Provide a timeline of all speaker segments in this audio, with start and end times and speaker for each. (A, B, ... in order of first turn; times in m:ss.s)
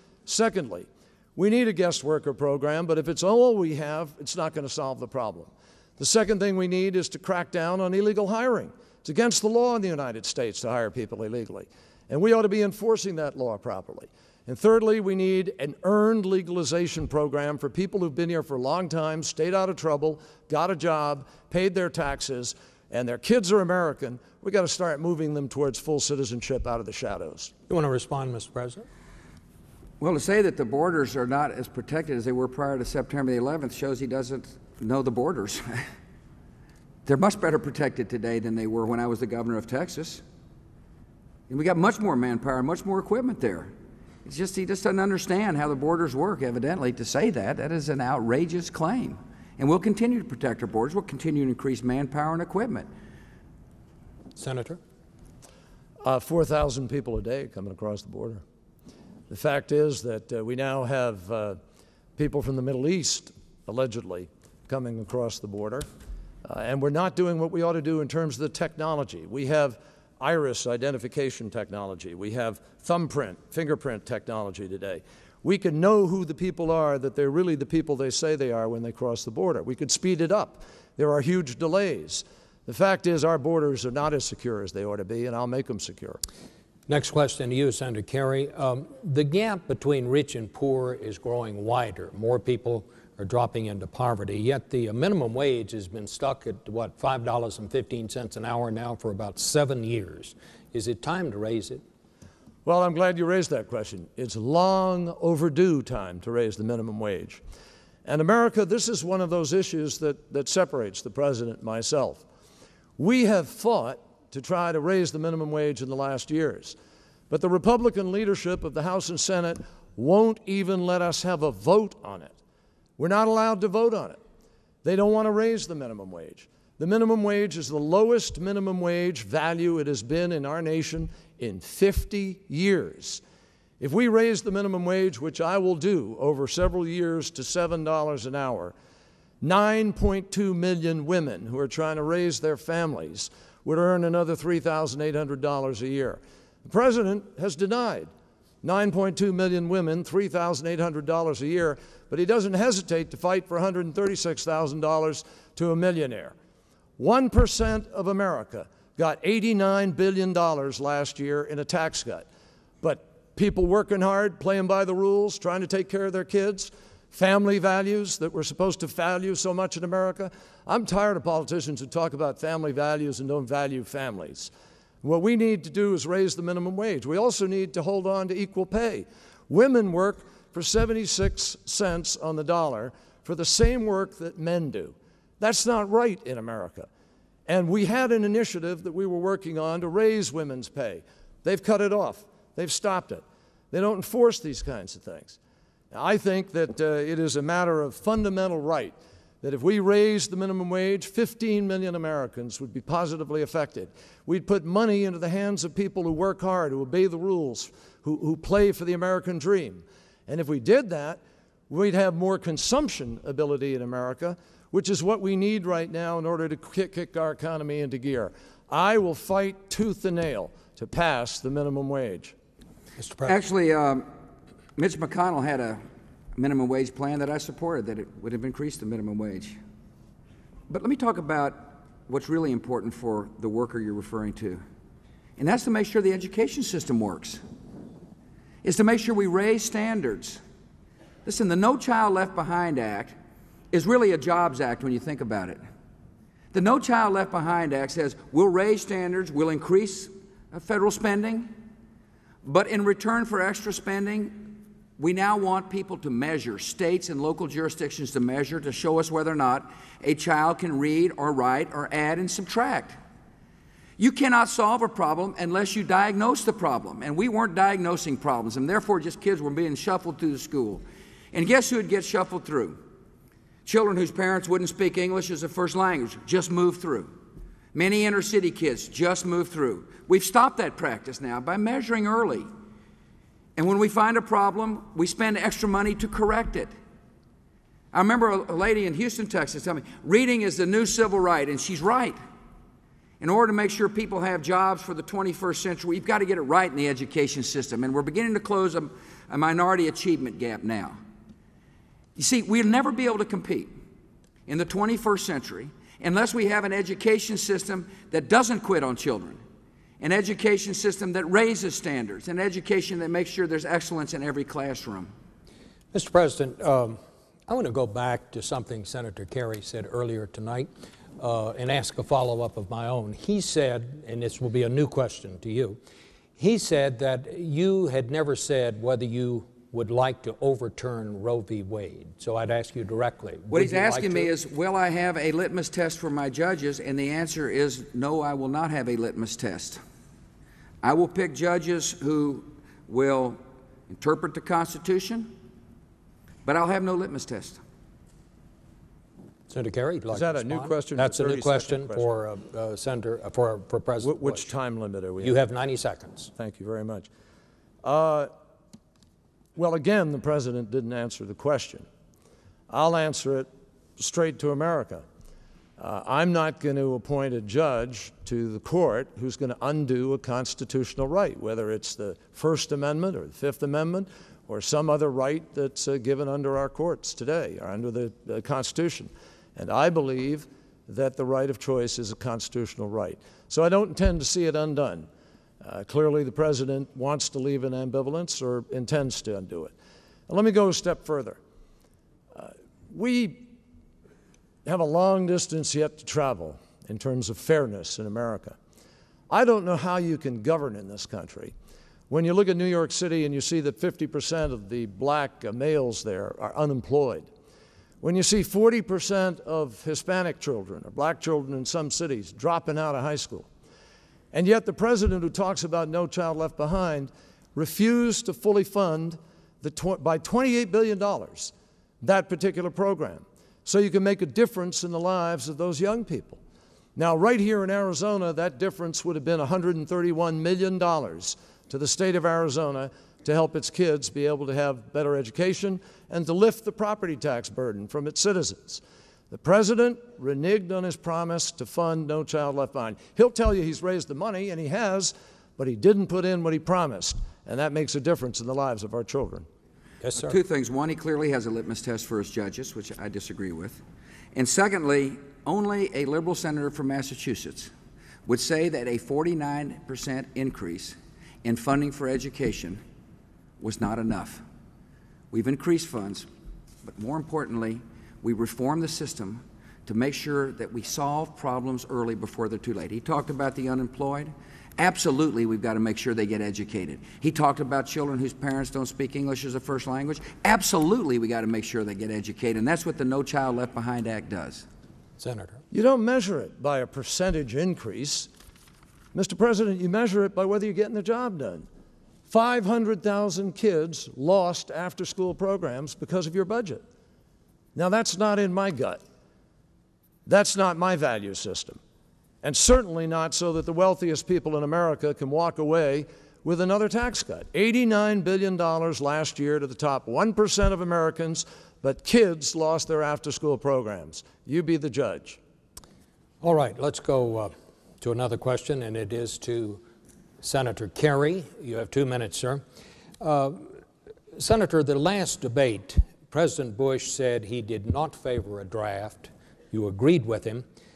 0:00.2-0:27.5 A
0:27.7-0:28.8 B
0:30.0-0:35.8 C
0:37.0-0:40.2 C
0:41.5-0:43.7 C
0:44.2-0:52.9 C
0:54.4-0:54.8 B
0:56.0-0:58.4 A
0:59.3-1:01.6 A
1:02.2-1:05.9 A
1:06.4-1:26.2 A
1:26.9-1:41.8 B
1:42.6-1:47.4 A
1:48.0-1:52.2 A
1:53.0-1:56.8 A
1:57.3-2:02.4 A
2:03.0-2:04.2 A
2:04.8-2:13.2 A
2:13.8-2:18.7 A
2:19.4-2:28.1 A
2:28.6-2:36.3 A
2:37.0-2:42.2 A
2:42.8-2:54.5 A
2:55.0-3:06.9 A
3:07.5-3:15.4 A
3:15.9-3:42.3 A
3:43.0-3:43.4 B
3:43.2-3:44.0 C
3:44.8-3:45.8 C
3:46.4-3:49.6 C
3:50.7-3:54.6 C
3:55.4-3:57.4 C
3:58.6-4:00.4 C
4:01.2-4:03.1 C
4:03.7-4:05.6 C
4:06.5-4:11.5 C
4:12.4-4:23.0 C
4:24.0-4:32.8 C
4:33.6-4:37.1 C
4:37.7-4:42.5 C
4:43.6-4:46.7 C
4:47.9-4:52.2 C
4:53.2-5:01.0 C
5:02.2-5:03.7 C
5:04.5-5:09.4 C
5:10.0-5:15.1 C
5:15.9-5:25.8 B
5:26.4-5:34.3 B
5:33.5-5:39.8 C
5:40.8-5:45.3 C
5:46.4-5:47.6 C
5:49.5-5:54.5 B
5:50.1-5:52.1 A
5:54.0-5:55.3 A
5:55.2-5:56.3 B
5:56.4-5:57.1 A
5:57.8-5:58.3 A
5:59.6-6:01.8 A
6:02.7-6:05.0 A
6:05.8-6:25.1 A
6:25.6-6:29.7 A
6:30.3-6:31.4 A
6:32.3-6:33.5 A
6:34.6-6:38.6 A
6:39.3-6:41.5 A
6:42.1-6:47.3 A
6:48.0-6:53.5 A
6:54.3-7:06.4 A
7:07.0-7:29.4 A
7:30.0-7:30.4 B
7:30.2-7:33.8 C
7:34.3-7:37.7 C
7:38.2-7:42.8 C
7:43.6-7:44.4 C
7:45.3-7:46.3 C
7:46.8-8:04.6 C
8:05.2-8:05.6 B
8:05.7-8:08.3 A
8:09.1-8:11.6 A
8:12.3-8:16.8 A
8:17.7-8:19.0 A
8:20.2-8:21.8 A
8:22.4-8:35.4 A
8:36.4-8:39.8 B
8:40.4-8:42.6 B
8:43.2-8:43.7 B
8:44.3-8:50.6 B